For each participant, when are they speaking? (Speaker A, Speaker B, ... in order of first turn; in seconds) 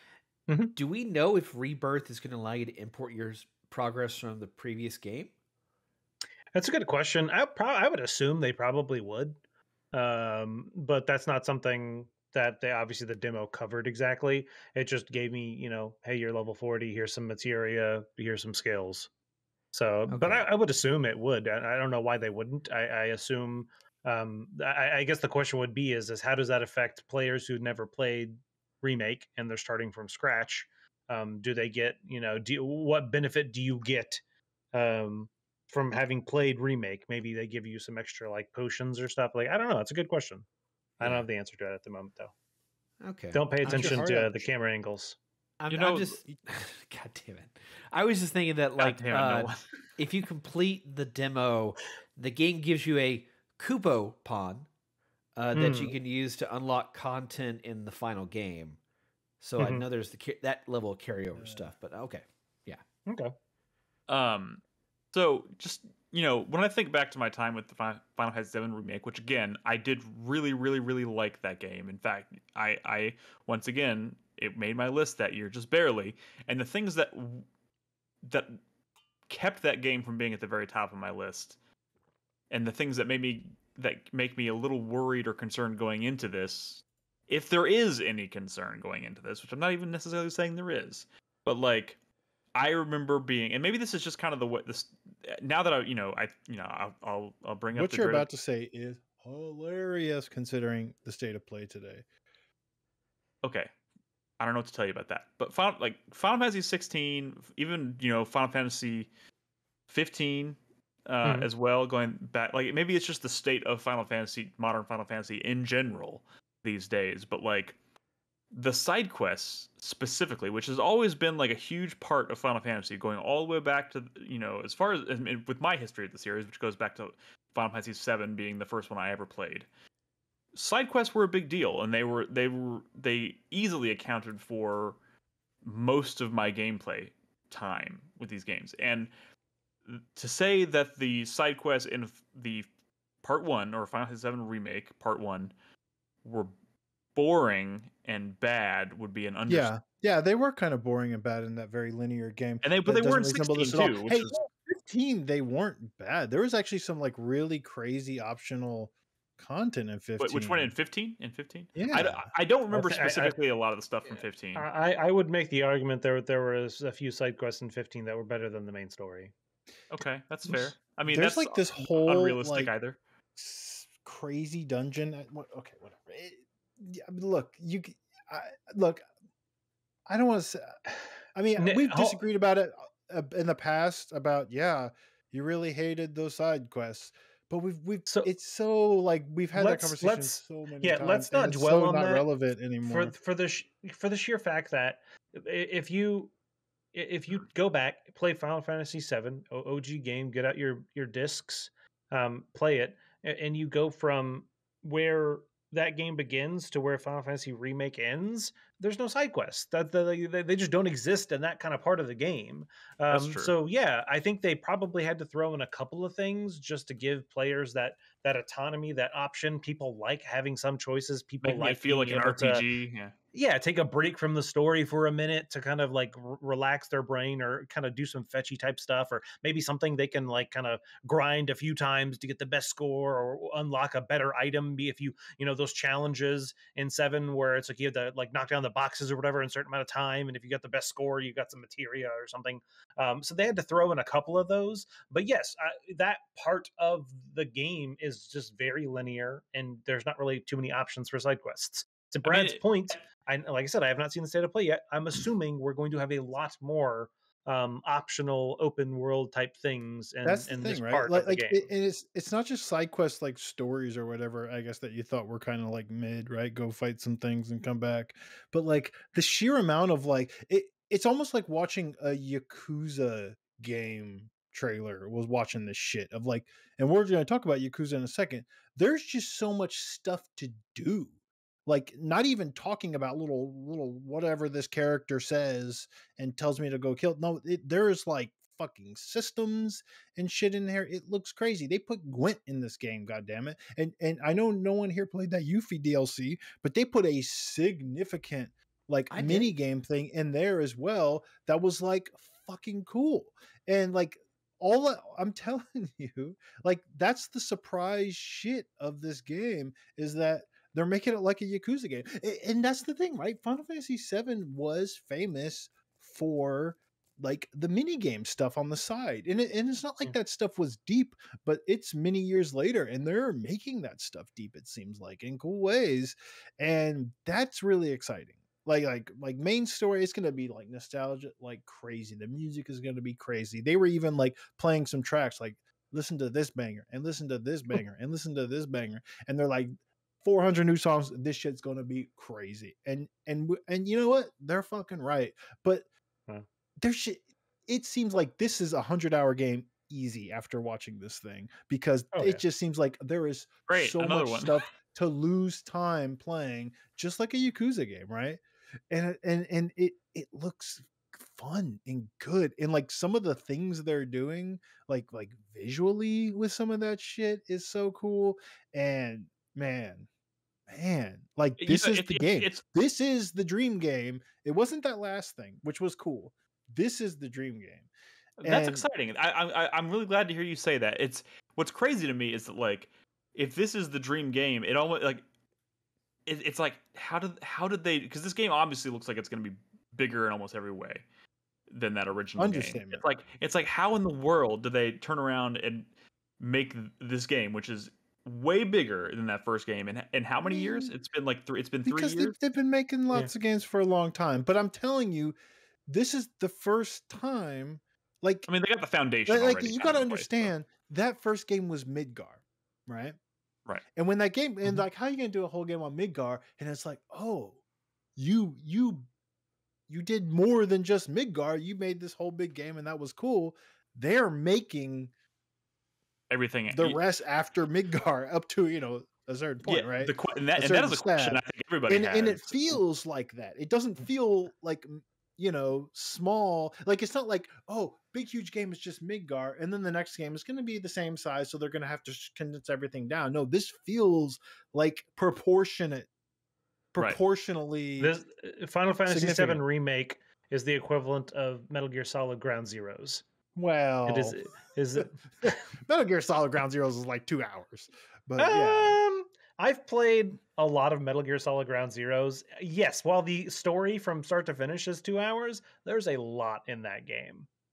Speaker A: 0.5-0.7, 6.5-9.4, 9.9-19.1, 19.7-34.2, 34.7-40.5, 41.0-42.3, 43.3-45.2, 55.5-55.9, 59.6-59.9, 63.1-63.3, 111.2-111.5, 162.7-163.4, 164.6-169.3, 181.6-182.2, 189.5-192.3, 192.8-196.3, 196.9-222.7, 223.3-261.7, 352.1-352.4, 448.0-453.2, 454.1-455.6, 458.4-467.5
Speaker B: 0.7-5.3, 20.1-20.5, 41.0-41.3, 43.0-44.0, 45.6-54.7, 55.4-58.8, 59.4-62.8, 299.1-299.5
Speaker C: 43.6-44.4, 61.4-61.7, 97.8-102.1, 149.5-160.7, 161.8-162.3, 170.5-172.7, 173.4-179.1, 180.1-180.8, 181.3-193.2, 260.2-281.1, 281.7-339.7, 340.2-345.9, 346.8-370.1, 370.7-377.9, 378.4-378.9, 392.4-393.0, 400.5-400.9, 401.9-405.4, 405.9-408.5, 409.3-413.2, 413.9-417.6, 418.2-419.1, 419.9-425.1, 426.7-446.1, 446.9-448.2, 449.1-449.6, 453.6-454.4, 455.0-459.0
Speaker D: 45.7-46.2, 48.8-49.6, 64.1-64.6, 65.1-77.5, 78.3-78.6, 79.3-81.6, 82.5-92.0, 92.5-98.3, 103.4-103.7, 104.4-109.1, 109.9-117.8, 118.5-129.7, 130.5-135.0, 135.6-139.1, 139.9-142.7, 143.2-145.5, 146.2-146.5, 147.2-149.7, 152.6-154.3, 160.2-164.7, 169.9-173.0, 213.1-213.5, 221.4-223.1, 252.2-252.6, 353.7-354.6, 371.6-372.6, 378.4-385.2, 386.3-391.1, 391.7-395.9, 396.4-402.4, 408.5-410.5, 426.3-427.0, 429.7-432.8